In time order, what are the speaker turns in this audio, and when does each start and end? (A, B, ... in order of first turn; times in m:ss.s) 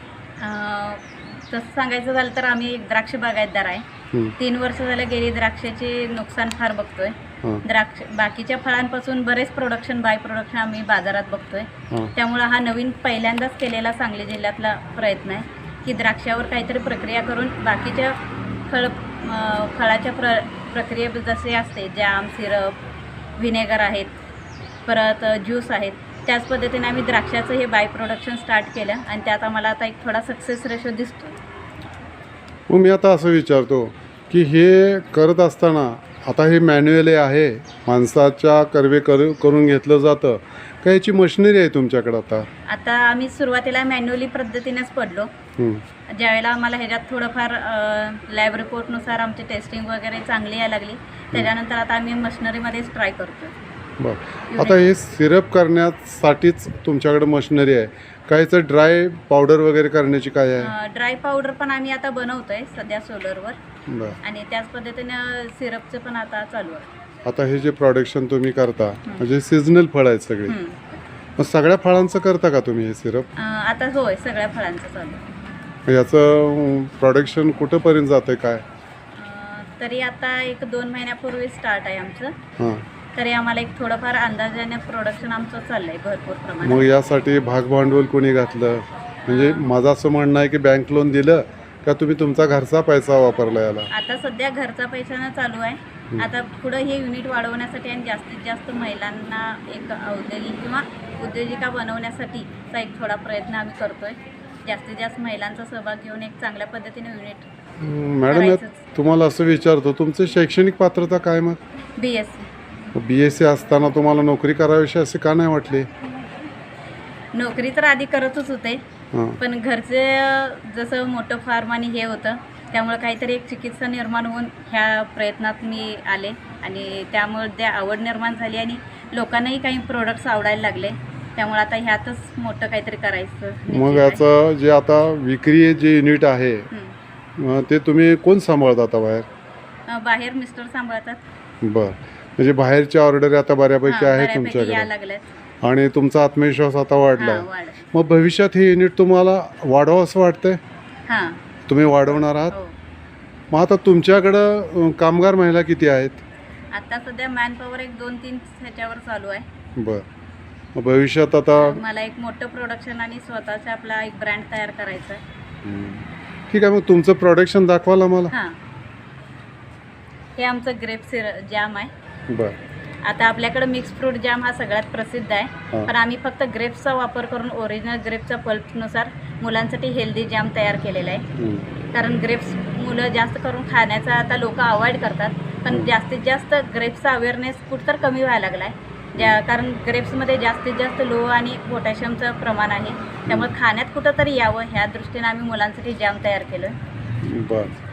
0:00.4-0:03.8 A
0:04.4-0:22.8 A
0:23.4-0:24.2 A
0:24.8-0:31.4 A
0:32.7-0:42.5 B
0:42.7-0:45.3 A
0:45.6-0:45.8 B
0:46.1-0:53.5 A
0:54.0-1:00.7 B
0:54.5-0:54.8 A
1:00.6-1:03.6 A
1:03.9-1:04.2 B
1:04.2-1:06.9 A
1:07.2-1:10.6 B
1:10.5-1:11.0 A
1:11.4-1:13.3 B
1:13.4-1:15.2 A
1:15.9-1:18.6 B
1:19.1-1:22.3 A
1:23.1-1:26.8 A
1:26.6-1:33.9 B
1:29.3-1:29.7 A
1:33.9-1:47.4 A
1:47.8-1:51.6 B
1:48.3-1:48.8 A
1:52.0-1:52.5 A
1:52.9-1:55.9 B
1:57.3-1:58.8 A
1:59.1-1:59.4 B
1:59.4-2:14.2 A
2:13.7-2:16.7 B
2:17.4-2:19.2 B
2:19.9-2:21.2 A
2:21.6-2:24.9 B
2:23.9-2:25.3 A
2:25.6-2:30.6 B
2:27.2-2:27.8 A
2:31.1-2:31.4 A
2:31.7-2:32.6 B
2:33.5-2:36.2 B
2:36.7-2:39.4 A
2:39.8-2:40.0 B
2:40.7-2:41.8 B
2:41.6-2:45.2 A
2:45.6-2:48.3 B
2:50.4-2:51.9 A
2:52.3-2:52.6 B
2:53.0-3:01.2 A
3:01.4-3:01.7 B
3:01.9-3:16.8 A
3:05.7-3:05.9 B
3:09.2-3:09.4 B
3:13.3-3:13.5 B
3:17.2-3:17.8 B